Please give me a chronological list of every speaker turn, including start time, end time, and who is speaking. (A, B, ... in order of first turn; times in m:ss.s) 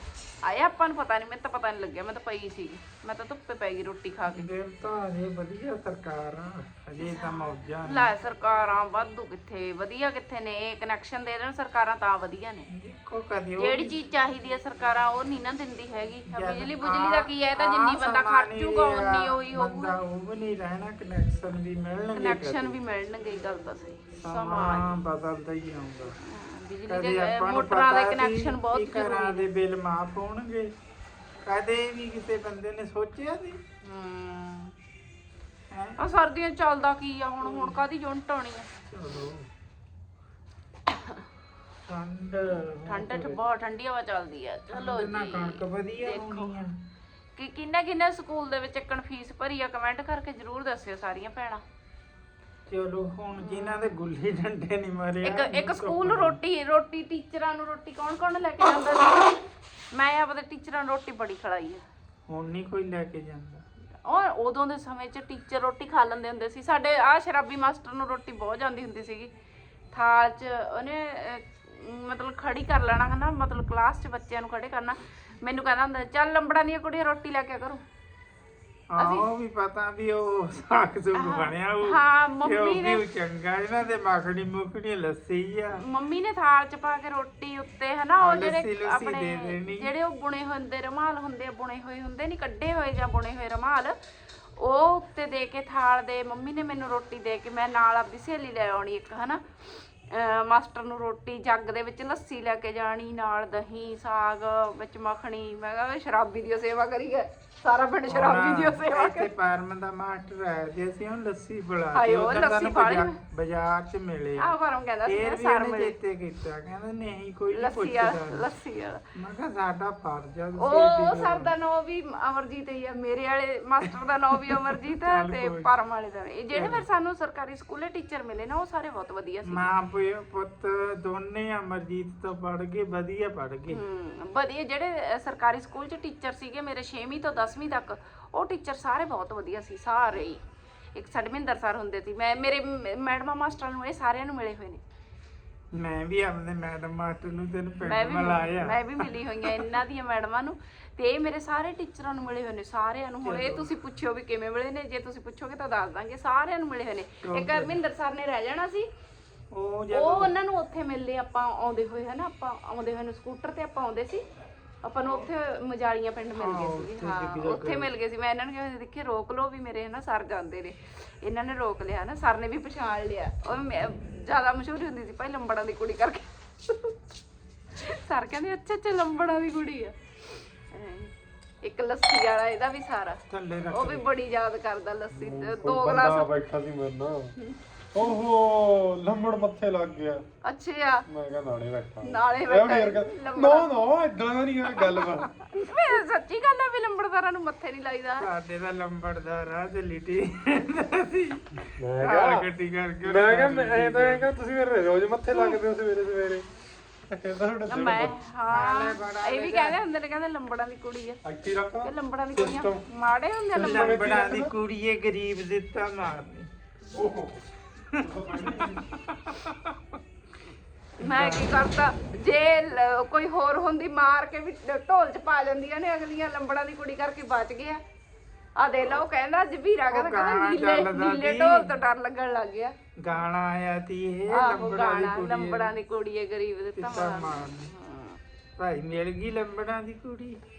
0:00.4-0:04.5 A
0:04.2-0:08.1 B
0:07.0-0:12.7 A
0:12.7-0:14.0 B
0:13.6-0:20.0 A
0:16.3-0:22.8 B
0:22.1-0:25.0 A
0:24.2-0:26.2 B
0:26.2-0:29.4 A
0:26.9-0:30.7 B
0:31.4-0:33.6 B
0:33.8-0:34.7 A
0:35.7-0:36.0 B
0:36.0-0:38.7 A
0:37.4-0:37.8 B
0:38.9-0:39.5 B
0:40.9-0:41.2 A
0:41.8-0:43.4 B
0:42.8-0:46.5 A
0:44.7-0:46.7 B
0:47.4-0:51.6 A
0:52.7-0:56.4 B
0:53.4-0:54.0 A
0:55.2-1:01.8 A
1:02.3-1:03.6 B
1:04.0-1:09.3 A
1:09.9-1:17.8 A
1:18.9-1:25.8 B
1:19.0-1:19.2 A
1:21.1-1:23.0 A
1:25.8-1:33.9 A
1:28.2-1:29.9 B
1:34.6-1:49.3 A
1:48.1-1:54.5 B
1:51.9-1:53.2 A
1:54.4-1:56.0 A
1:55.0-1:58.5 B
1:57.5-1:59.0 A
1:59.1-2:01.5 B
2:00.6-2:09.7 A
2:03.8-2:05.7 B
2:06.5-2:06.8 B
2:09.4-2:13.8 B
2:13.7-2:20.4 A
2:20.9-2:24.8 A
2:25.8-2:29.7 B
2:27.8-2:38.9 A
2:33.2-2:33.7 B
2:37.2-2:37.8 B
2:39.5-2:40.4 B
2:39.9-2:44.2 A
2:44.8-2:57.0 A
2:46.4-2:47.9 B
2:57.8-3:01.1 A
3:01.6-3:03.2 A
3:03.3-3:04.1 B
3:03.7-3:06.3 A
3:05.1-3:07.3 C
3:07.4-3:08.2 A
3:07.9-3:10.2 C
3:10.4-3:11.0 A
3:11.1-3:15.4 C
3:12.0-3:13.7 A
3:14.8-3:18.3 A
3:18.2-3:24.3 B
3:21.8-3:22.5 C
3:23.0-3:26.4 C
3:25.3-3:25.6 A
3:27.1-3:28.1 C
3:27.7-3:31.2 A
3:28.5-3:29.8 B
3:31.2-3:32.8 C
3:31.8-3:34.0 A
3:33.5-3:34.5 C
3:33.6-3:36.5 B
3:36.9-3:37.4 C
3:37.9-3:39.8 B
3:37.9-3:38.9 C
3:41.0-3:41.6 B
3:41.0-3:47.8 A
3:48.6-3:52.7 A
3:49.9-3:51.7 B
3:53.0-3:55.7 B
3:54.3-3:58.2 A
3:56.8-3:57.7 B
3:58.6-4:00.4 B